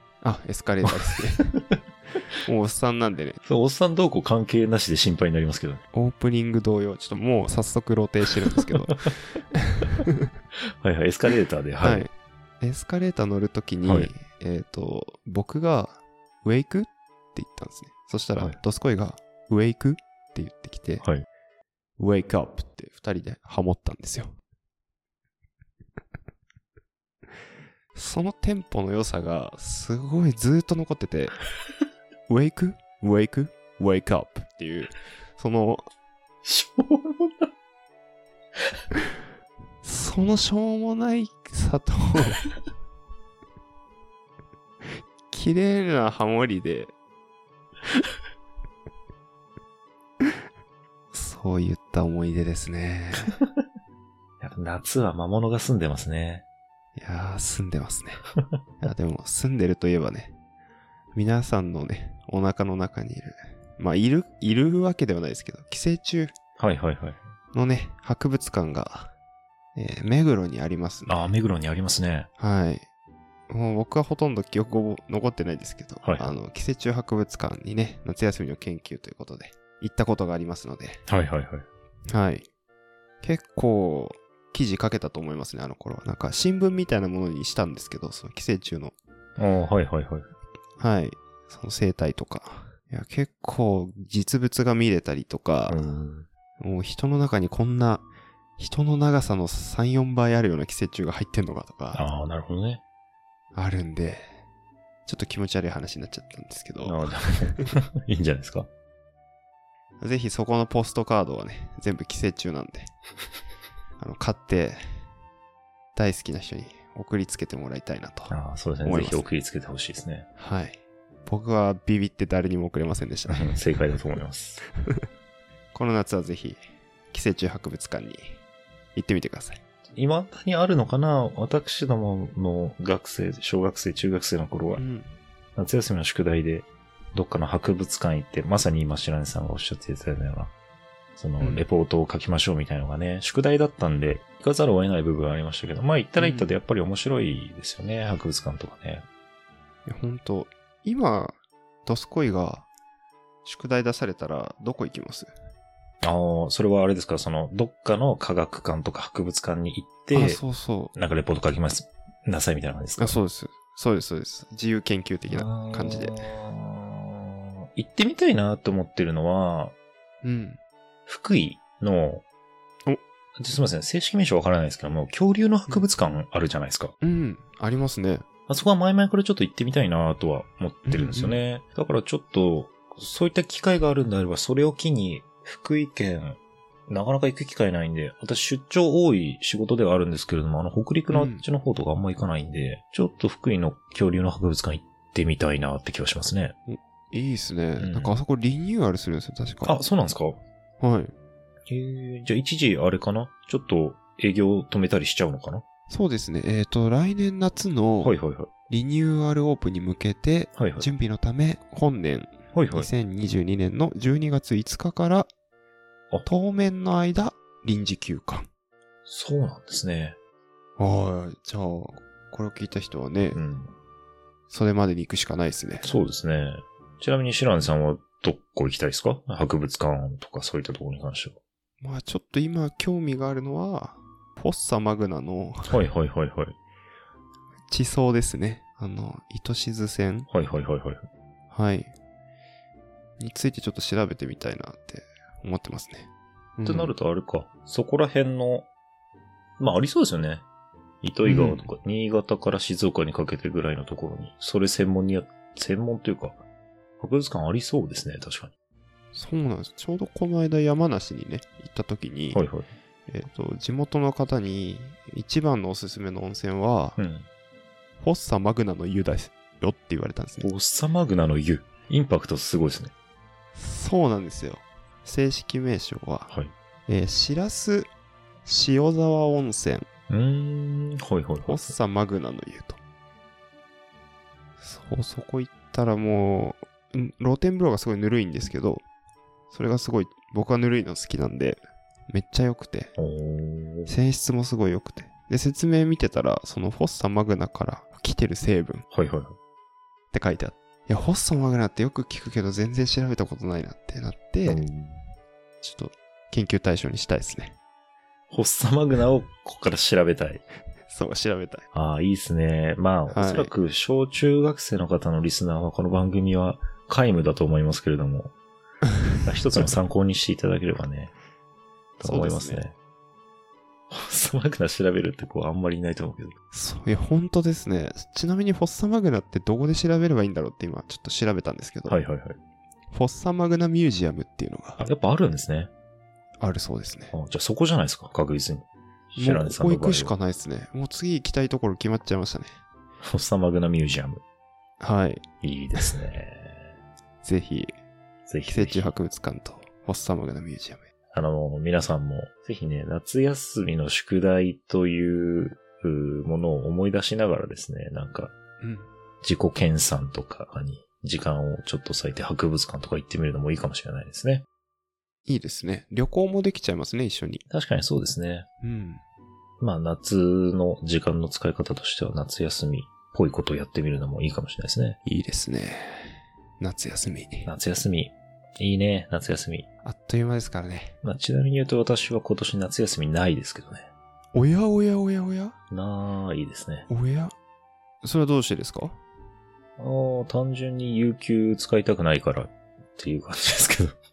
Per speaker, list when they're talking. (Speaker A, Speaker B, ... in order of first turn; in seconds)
Speaker A: 0.2-1.6, 2.4-3.4, 5.9-10.3, 11.8-12.1, 12.6-21.0, 22.0-24.4, 27.9-31.4, 32.3-35.8, 39.8-42.4, 45.3-46.9, 51.1-53.3, 57.0-58.2, 58.8-60.4, 61.1-66.3, 67.5-69.1, 69.8-71.2, 72.4-72.9, 73.5-81.0, 82.1-82.5, 83.2-88.9, 90.8-95.8, 96.6-98.0, 98.6-102.0, 103.5-104.3, 105.1-107.7, 110.0-112.9, 114.0-114.8, 116.0-119.2, 120.4-123.6, 125.7-128.4, 128.9-129.6, 134.8-135.1, 141.4-141.7, 146.2-146.6, 149.9-151.3, 151.9-152.7, 153.4-155.3, 160.1-160.9, 163.0-166.2, 170.2-170.6, 177.0-178.2, 180.9-181.4, 191.1-191.4, 196.7-199.8, 200.8-201.1, 205.9-208.2, 208.7-215.3, 216.2-218.5, 220.8-223.4, 224.5-225.9, 231.8-235.7, 237.7-240.3, 241.5-241.9, 243.2-246.9, 251.2-251.7, 259.1-262.4, 263.1-267.0, 268.0-270.5, 273.6-276.3, 276.9-277.9, 278.4-279.9, 281.5-282.8, 284.6-288.8, 289.5-292.9, 293.9-298.9, 300.1-304.6, 305.6-307.6, 310.9-311.6, 313.1-313.5, 322.0-322.6, 326.5-332.0, 332.9-334.9, 336.4-337.1, 339.2-342.6, 344.8-345.2, 347.2-347.7, 348.5-350.8, 358.6-358.9, 365.3-367.4, 368.6-369.0, 375.1-377.5, 379.8-380.9, 384.3-385.6, 386.9-387.3, 388.0-389.0
Speaker B: 3.5-5.8, 10.8-12.1, 13.8-14.1, 36.4-37.5, 53.2-53.6, 54.4-56.4, 66.6-67.2, 71.1-72.3, 76.0-76.3, 81.1-81.7, 89.4-90.3, 95.7-96.3, 101.9-102.8, 106.8-108.7, 118.3-120.3, 123.3-124.6, 129.9-134.8, 135.6-140.5, 141.2-149.1, 156.0-160.4, 160.9-163.2, 165.3-169.7, 171.1-172.2, 173.4-176.9, 178.5-186.4, 186.9-196.5, 197.8-198.2, 199.7-200.4, 201.7-205.6, 208.0-208.5, 210.6-210.9, 212.5-212.9, 219.1-220.2, 223.3-223.7, 225.8-231.4, 235.7-236.5, 240.3-241.0, 246.7-248.7, 249.6-250.4, 251.0-256.4, 257.0-258.5, 262.3-262.7, 267.0-267.3, 270.4-272.9, 280.1-281.8, 293.0-293.9, 298.9-299.4, 304.5-305.0, 308.3-310.4, 311.7-318.3, 319.2-321.1, 322.0-322.8, 323.9-326.3, 331.9-332.4, 334.8-335.7, 337.1-340.1, 343.0-344.2, 345.4-346.7, 348.3-348.9, 351.1-358.3, 359.2-364.4, 367.5-368.5, 369.6-375.0, 377.4-379.7, 381.0-383.9, 385.7-386.9, 389.8-394.0